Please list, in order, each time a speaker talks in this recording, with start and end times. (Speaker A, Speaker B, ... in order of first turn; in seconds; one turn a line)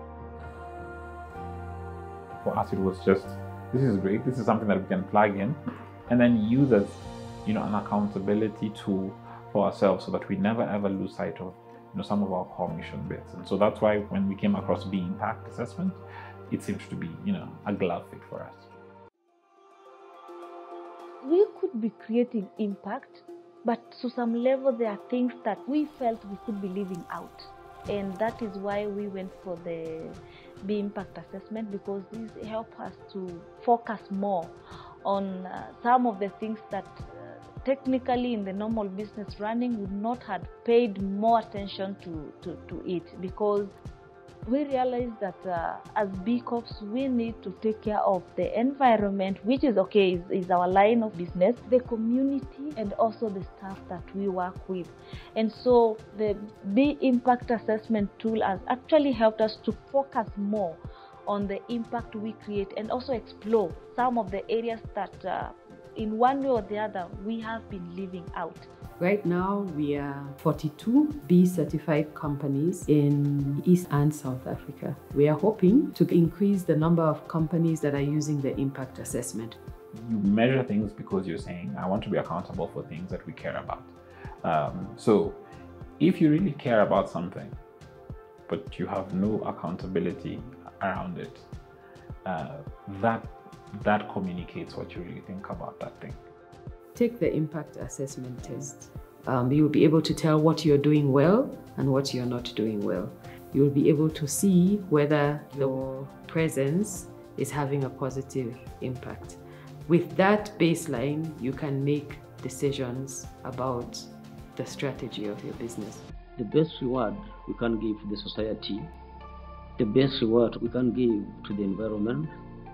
Speaker A: 2.4-18.7
Speaker B: 21.2-43.7
Speaker B: 44.5-68.7
Speaker C: 69.0-79.6
Speaker A: 79.9-83.9
Speaker A: 84.4-85.4
Speaker A: 86.0-87.6
Speaker A: 88.5-91.5
Speaker A: 92.2-96.2
Speaker C: 97.0-116.0
Speaker D: 116.4-118.9
Speaker D: 119.8-122.3